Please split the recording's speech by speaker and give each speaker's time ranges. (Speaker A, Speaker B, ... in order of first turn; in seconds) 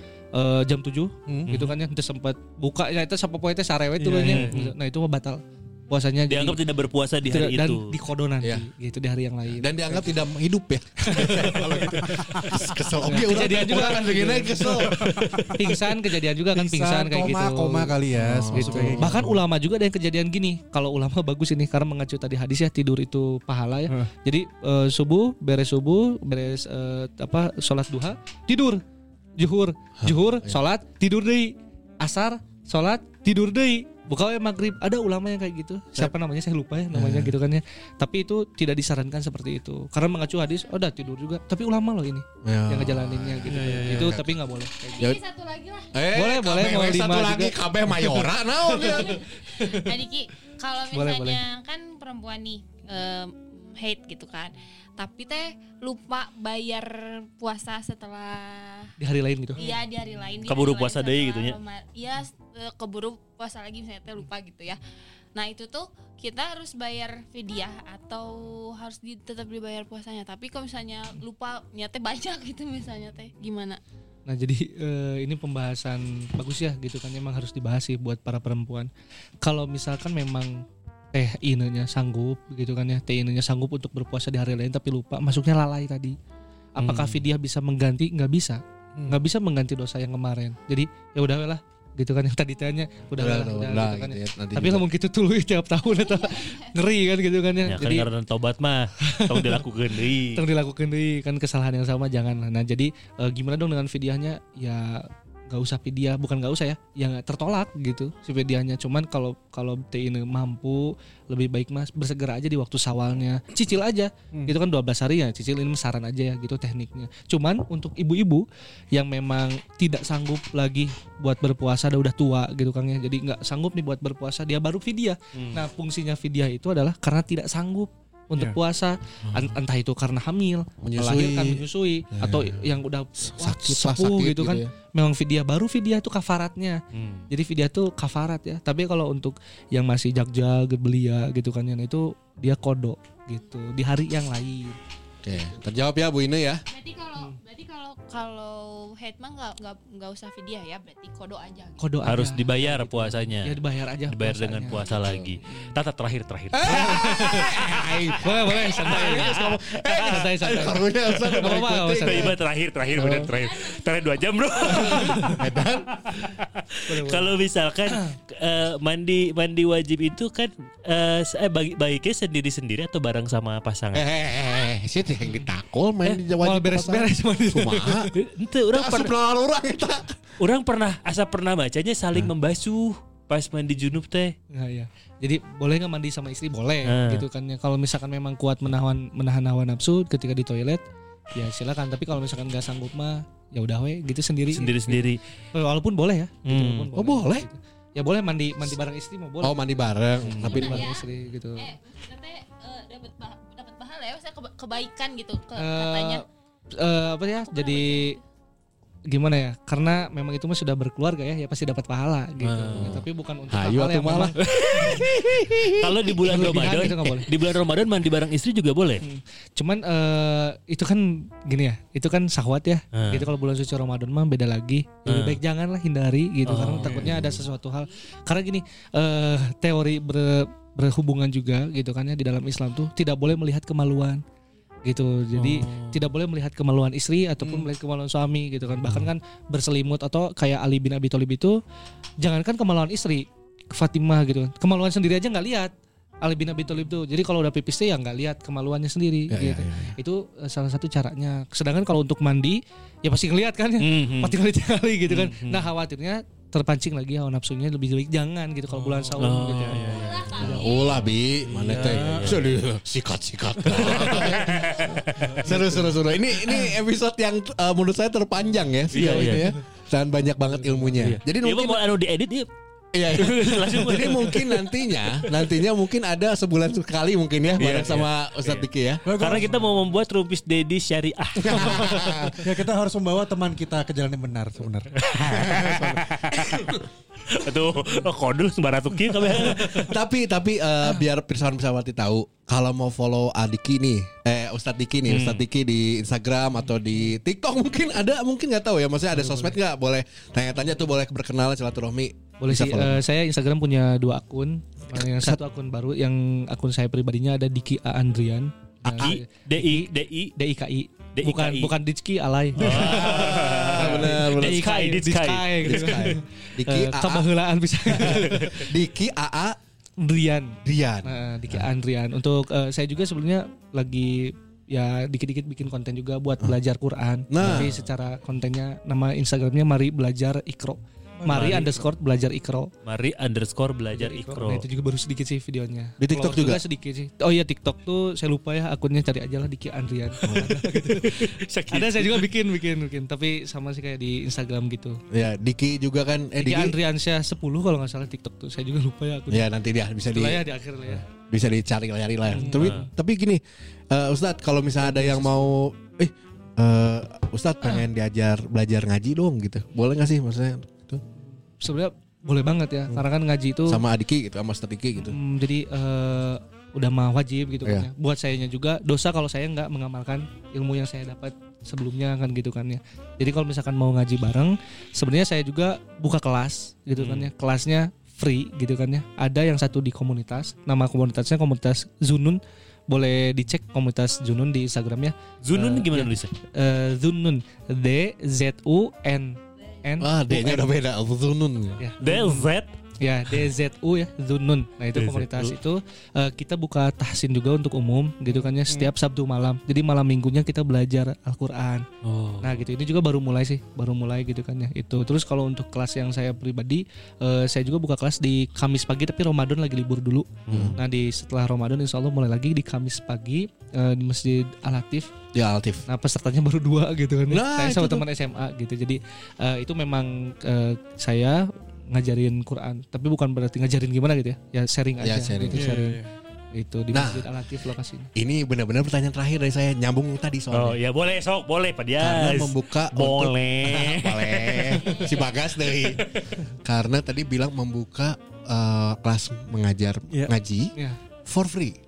Speaker A: 0.3-6.6, 7.3-10.2, 11.0-18.0, 18.5-28.8, 29.4-45.1, 46.1-49.9, 50.9-51.4, 59.0-59.7, 74.3-78.9, 79.4-86.2, 86.8-98.1, 99.0-99.6, 100.3-144.8, 151.8-154.8, 155.4-155.7, 156.6-157.5, 158.2-162.3, 164.9-165.4, 166.9-167.3, 167.9-168.2, 176.4-178.1, 184.5-190.8, 191.3-201.7, 205.6-206.2, 206.8-208.2, 209.1-214.4, 216.2-217.3, 219.0-234.2, 234.9-241.6, 242.2-245.7, 246.2-260.7, 269.1-269.5, 299.1-299.6, 302.4-318.7, 320.0-332.7, 333.9-345.0, 346.4-349.5, 350.0-351.1, 352.3-352.9, 354.8-355.5, 361.6-363.8, 365.0-390.7, 391.8-401.8, 402.4-415.1, 415.9-426.0, 426.5-428.1
Speaker B: 1.3-1.7, 4.0-4.5, 11.9-12.4, 14.7-15.8, 16.5-19.4, 43.5-44.2, 258.8-260.3, 261.4-262.5, 263.8-266.0, 270.8-271.2, 279.1-279.6, 282.4-286.0, 331.2-331.6, 425.5-426.1
Speaker C: 4.2-4.7, 6.3-7.9, 60.5-61.6, 86.8-87.2, 97.6-100.4, 125.3-125.6, 136.9-137.3, 152.0-158.7, 162.0-165.5, 166.1-174.1, 178.1-179.1, 180.4-184.3, 186.8-187.2, 194.5-195.2, 196.4-196.9, 200.2-200.7, 212.4-213.0, 214.4-219.0, 222.9-223.3, 225.1-225.4, 226.4-227.2, 235.3-236.0, 253.8-254.3, 255.1-255.6, 259.2-260.0, 261.6-262.4, 263.6-265.4, 268.9-269.5, 271.2-272.5, 273.1-275.3, 277.6-282.4, 284.9-286.8, 287.3-290.0, 295.1-295.4, 308.9-310.3, 311.2-311.7, 312.6-316.1, 327.4-327.7, 331.3-331.8, 332.9-334.6, 340.3-342.3, 352.5-352.9, 377.0-377.3, 385.4-386.3, 392.0-392.7, 394.9-395.5, 402.0-402.6, 410.5-410.8, 430.5-435.1, 435.7-436.3
Speaker D: 8.4-8.7, 9.6-15.4, 18.1-19.3, 30.0-30.6, 36.9-37.3, 42.4-44.4, 45.9-49.3, 93.2-94.8, 129.2-129.6, 130.8-134.7, 145.2-146.6, 154.9-155.3, 156.6-162.3, 162.9-163.3, 164.7-165.9, 173.9-178.1, 178.7-180.2, 196.9-197.5, 199.4-201.0, 212.7-217.2, 226.8-227.4, 249.3-250.0, 260.4-271.8, 272.9-279.0, 281.4-282.4, 285.4-285.7, 286.3-286.7, 289.5-303.0, 304.9-305.4, 312.6-314.7, 315.6-317.3, 317.8-319.6, 320.6-321.7, 327.3-327.7, 336.0-336.6, 340.2-340.6, 345.1-346.8, 349.3-350.5, 351.1-361.0, 363.7-365.2, 367.6-367.9, 390.0-391.8, 410.5-410.8, 415.3-415.9, 417.3-418.1, 425.0-425.8, 426.9-427.3, 428.1-430.8, 432.0-436.1, 436.6-440.7, 441.2-441.8
Speaker E: 44.8-45.9, 48.8-58.9, 59.5-64.8, 65.3-73.8, 95.9-96.7, 146.7-151.9, 200.5-206.2, 207.5-208.2, 259.9-261.1